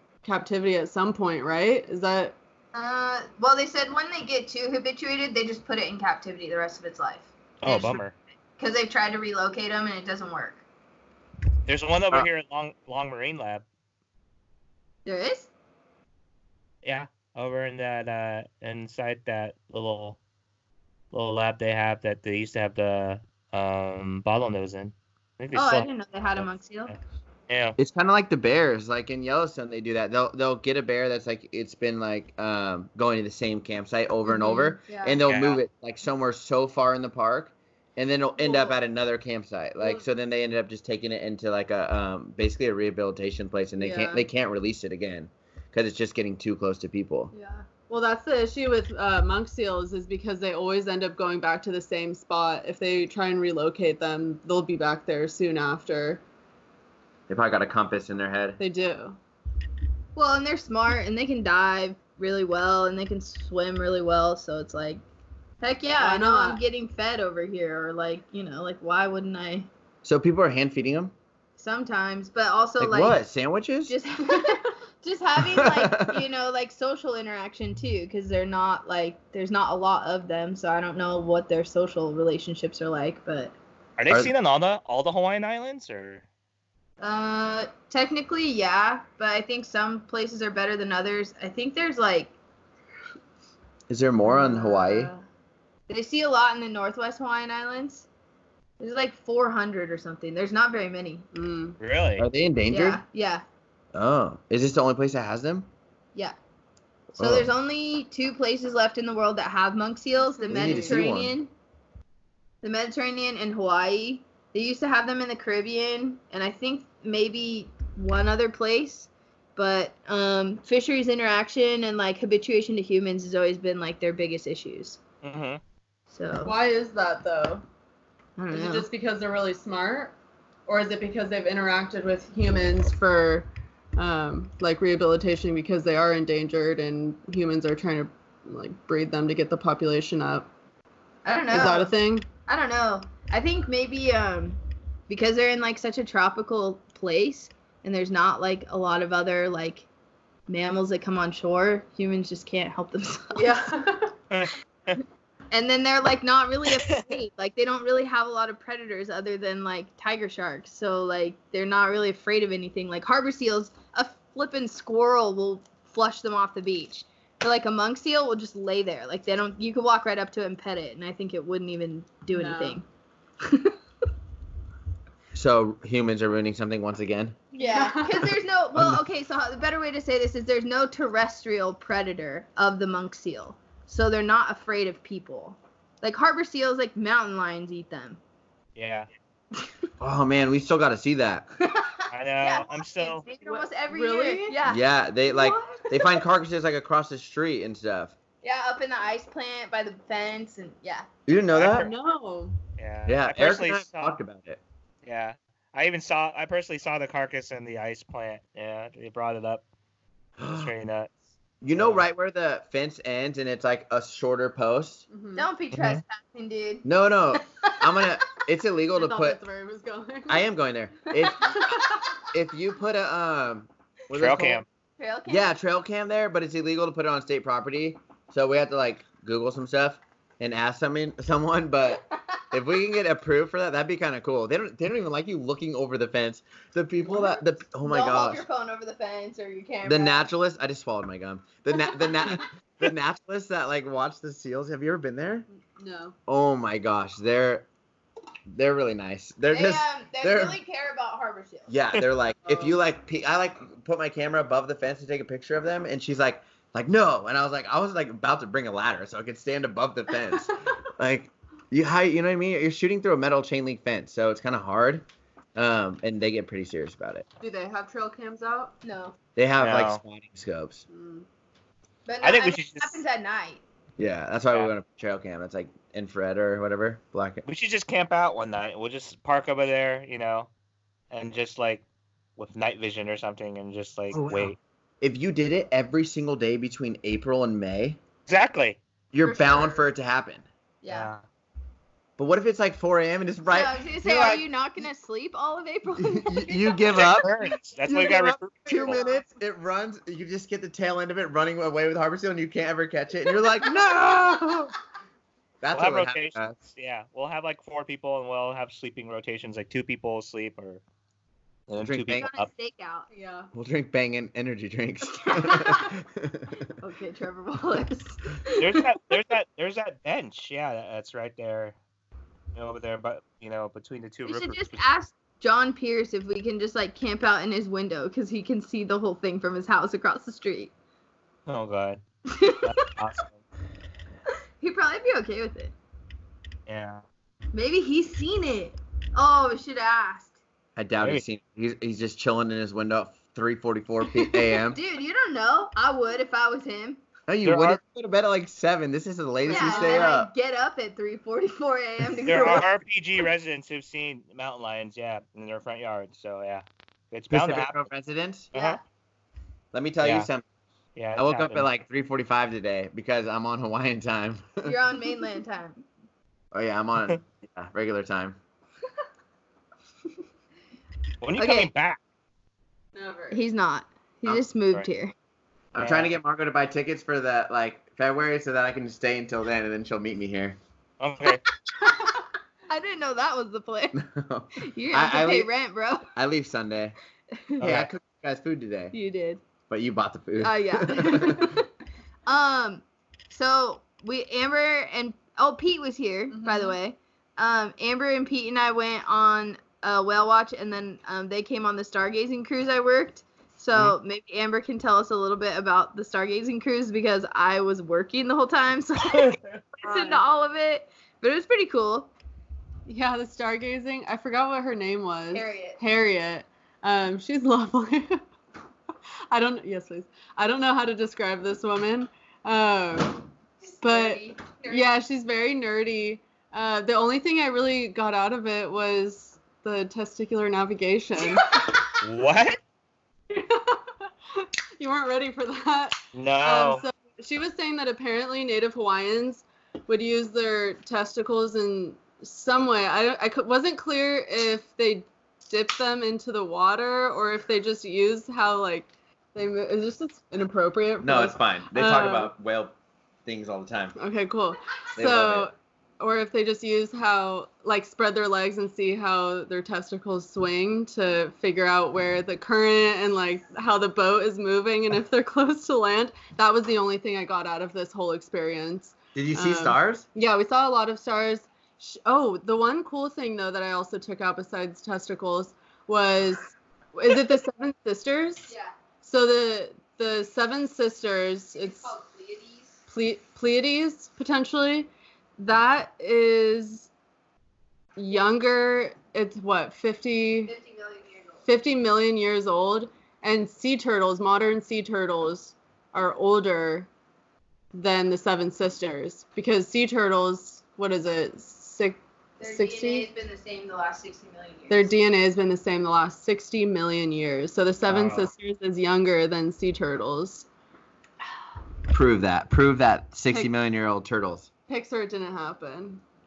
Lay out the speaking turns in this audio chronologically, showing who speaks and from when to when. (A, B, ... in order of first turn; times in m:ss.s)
0:00.2-0:02.4 A
0:02.7-0:08.0 B
0:07.6-0:08.1 C
0:08.6-0:10.6 B
0:11.6-0:13.6 C
0:15.0-0:15.5 B
0:16.8-0:20.2 C
0:21.1-0:27.0 C
0:25.5-0:26.9 B
0:27.5-0:27.8 C
0:27.8-0:47.3 D
0:34.3-0:34.8 A
0:34.9-0:35.2 B
0:35.3-0:35.6 C
0:38.4-0:38.8 A
0:39.8-0:40.1 A
0:43.8-0:44.3 A
0:47.3-0:56.2 A
0:57.3-0:58.6 D
0:58.6-0:59.2 A
1:00.1-1:05.0 B
1:05.6-1:09.7 B
1:06.0-1:06.6 A
1:10.0-1:11.1 D
1:11.6-1:13.2 B
1:12.8-1:14.0 D
1:13.9-1:23.6 B
1:15.4-1:16.2 D
1:24.0-1:26.2 C
1:27.0-1:32.3 B
1:33.9-1:35.1 D
1:34.3-1:35.2 B
1:35.9-1:38.1 B
1:38.8-1:41.3 B
1:41.3-1:41.8 A
1:41.8-1:42.3 C
1:42.2-1:43.0 D
1:42.7-1:43.4 B
1:43.9-1:45.7 D
1:47.2-1:47.5 D
1:47.2-1:51.5 B
1:50.2-1:51.1 A
1:50.5-1:51.4 D
1:52.6-2:05.0 B
2:05.2-2:05.6 C
2:06.1-2:06.5 B
2:06.4-2:07.6 A
2:08.4-2:08.9 B
2:08.5-2:10.1 A
2:10.7-2:20.5 A
2:21.2-2:21.9 B
2:21.5-2:22.3 A
2:22.4-2:29.9 B
2:30.5-2:33.6 B
2:33.3-2:34.1 A
2:34.3-2:35.0 C
2:35.5-2:52.8 B
2:36.7-2:37.0 C
2:52.3-2:52.8 A
2:53.4-2:53.7 B
2:55.3-2:57.4 D
2:57.5-3:08.2 B
2:57.6-2:58.4 A
2:58.8-2:59.0 D
3:08.8-3:09.1 C
3:10.0-3:11.5 D
3:11.6-3:16.2 B
3:12.1-3:13.3 C
3:13.4-3:14.6 A
3:14.6-3:18.1 D
3:18.4-3:21.1 B
3:21.3-3:21.9 D
3:21.5-3:21.9 C
3:21.7-3:22.6 A
3:22.8-3:24.2 C
3:23.1-3:24.6 D
3:25.0-3:29.6 C
3:30.4-3:30.7 D
3:30.4-3:31.1 C
3:31.6-3:35.0 D
3:31.7-3:32.0 C
3:35.1-3:35.4 A
3:35.4-3:36.9 B
3:35.7-3:36.0 C
3:36.8-3:39.4 D
3:39.0-3:40.4 A
3:40.3-3:44.6 D
3:41.2-3:41.8 B
3:41.6-3:41.8 A
3:44.1-3:44.7 C
3:45.0-3:45.5 B
3:45.3-3:58.4 D
3:57.8-4:00.3 B
3:59.8-4:05.5 D
4:05.5-4:06.2 A
4:06.3-4:07.7 D
4:08.5-4:10.6 D
4:09.5-4:11.7 B
4:11.7-4:25.0 D
4:12.4-4:12.8 A
4:25.6-4:27.3 D
4:27.4-4:28.7 A
4:28.8-4:29.2 B
4:29.4-4:30.8 D
4:29.6-4:30.0 C
4:30.9-4:31.3 A
4:32.0-4:33.6 B
4:32.2-4:33.0 C
4:34.0-4:37.4 D
4:37.4-4:40.5 C
4:41.1-4:41.8 C
4:42.4-4:44.6 C
4:44.1-4:48.0 D
4:48.3-4:48.8 C
4:49.1-4:50.4 D
4:49.3-4:49.6 A
4:50.8-4:51.1 B
4:50.9-4:51.2 C
4:52.2-4:54.4 D
4:53.5-4:57.3 B
4:56.0-4:57.3 D
4:56.9-4:59.0 C
4:57.8-5:04.7 D
4:58.8-4:59.2 B
5:05.6-5:06.5 D
5:05.7-5:10.8 C
5:11.7-5:12.5 C
5:11.8-5:12.3 D
5:12.2-5:13.1 B
5:13.1-5:13.5 A
5:13.5-5:16.7 D
5:15.4-5:15.8 B
5:16.8-5:18.8 B
5:18.6-5:21.8 C
5:22.5-5:24.8 C
5:24.3-5:30.7 B
5:31.5-5:33.4 C
5:32.3-5:32.7 B
5:34.6-5:35.7 B
5:36.7-5:37.0 C
5:37.5-5:40.3 B
5:40.8-5:44.8 D
5:44.6-5:47.0 B
5:47.3-5:50.3 D
5:47.4-5:47.8 C
5:49.4-5:50.1 A
5:49.4-5:52.7 B
5:52.2-5:57.8 C
5:57.3-5:58.5 D
5:58.5-5:58.8 C
5:58.5-5:58.8 B
5:59.7-6:00.4 D
6:00.0-6:00.3 C
6:01.0-6:01.7 C
6:01.2-6:04.7 D
6:04.6-6:05.8 B
6:06.5-6:08.4 D
6:11.2-6:12.0 C
6:11.4-6:11.7 B
6:13.0-6:13.4 A
6:13.3-6:15.1 B
6:15.7-6:20.6 D
6:15.8-6:16.1 C
6:21.0-6:21.4 C
6:22.7-6:24.0 B
6:23.9-6:25.5 D
6:24.6-6:26.1 B
6:26.1-6:27.0 D
6:27.3-6:27.6 B
6:27.6-6:27.9 C
6:27.6-6:28.9 D
6:28.9-6:29.4 B
6:29.7-6:31.6 D
6:30.4-6:31.7 B
6:32.3-6:52.1 B
6:36.3-6:36.8 A
6:49.8-6:50.2 A
6:52.9-6:58.2 A
6:55.3-6:55.8 B
6:59.3-7:03.3 A
7:03.7-7:04.9 B
7:03.8-7:11.6 A
7:12.0-7:12.6 C
7:13.3-7:32.3 A
7:16.1-7:16.8 C
7:31.0-7:32.7 D
7:33.3-7:34.0 D
7:34.0-8:01.9 A
7:35.0-7:35.5 D
7:49.1-7:50.0 D
7:58.5-7:58.7 B
8:01.6-8:02.8 B
8:02.9-8:06.9 A
8:08.0-8:10.5 A
8:10.4-8:11.4 B
8:11.4-8:16.9 A
8:17.7-8:23.1 A
8:22.4-8:24.9 B
8:24.7-8:30.5 A
8:27.9-8:28.3 C
8:31.9-8:34.5 D
8:34.7-8:36.0 A